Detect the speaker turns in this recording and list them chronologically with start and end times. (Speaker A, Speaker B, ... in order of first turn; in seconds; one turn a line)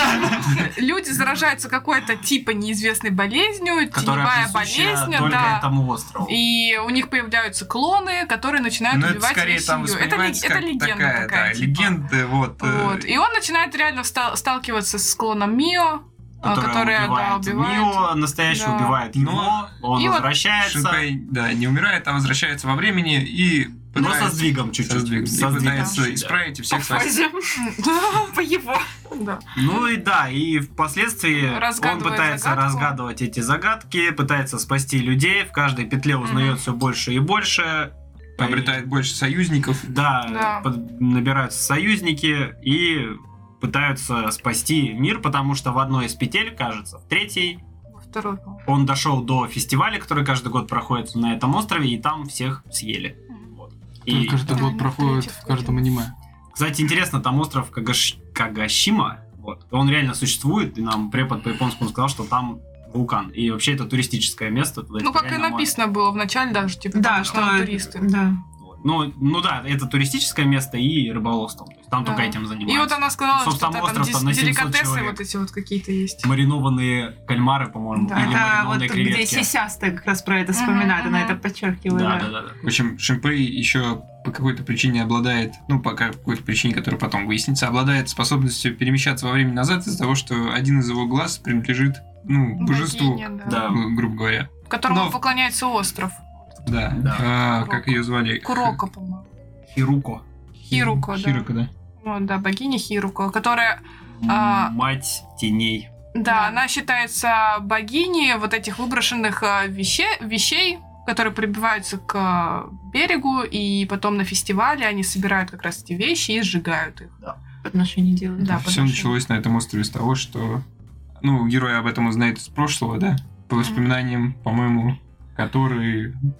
Speaker A: 0.3-5.7
Speaker B: 3.9-6.4
Speaker A: 6.2-12.0
Speaker C: 8.9-13.1
Speaker A: 12.6-19.0
Speaker B: 16.4-21.1
Speaker C: 19.1-19.8
Speaker A: 19.9-20.3
Speaker C: 20.5-27.2
Speaker B: 23.9-26.4
Speaker A: 25.5-25.9
Speaker D: 26.7-28.8
Speaker A: 27.6-28.3
Speaker A: 29.1-29.5
Speaker B: 29.6-38.8
Speaker A: 31.4-32.9
Speaker A: 36.2-36.6
Speaker C: 38.4-39.9
Speaker B: 39.8-47.6
Speaker A: 40.3-40.7
Speaker A: 47.9-48.6
Speaker B: 48.6-54.7
Speaker E: 54.1-56.1
Speaker A: 54.5-55.8
Speaker B: 56.5-65.7
Speaker A: 65.0-68.0
Speaker D: 66.9-68.4
Speaker B: 68.6-75.2
Speaker A: 72.0-76.3
Speaker B: 76.2-79.5
Speaker A: 78.0-78.4
Speaker D: 78.1-82.3
Speaker A: 80.5-81.4
Speaker B: 81.9-82.6
Speaker C: 82.6-95.2
Speaker A: 92.6-93.6
Speaker B: 93.4-93.8
Speaker A: 94.7-96.6
Speaker C: 96.6-98.8
Speaker B: 96.9-97.2
Speaker A: 97.4-99.2
Speaker B: 99.7-100.2
Speaker A: 100.7-101.5
Speaker C: 100.7-101.7
Speaker A: 102.0-104.7
Speaker B: 104.2-105.9
Speaker A: 106.1-117.1
Speaker D: 106.2-106.6
Speaker D: 117.6-118.5
Speaker A: 118.4-119.1
Speaker C: 118.5-120.6
Speaker C: 121.2-126.2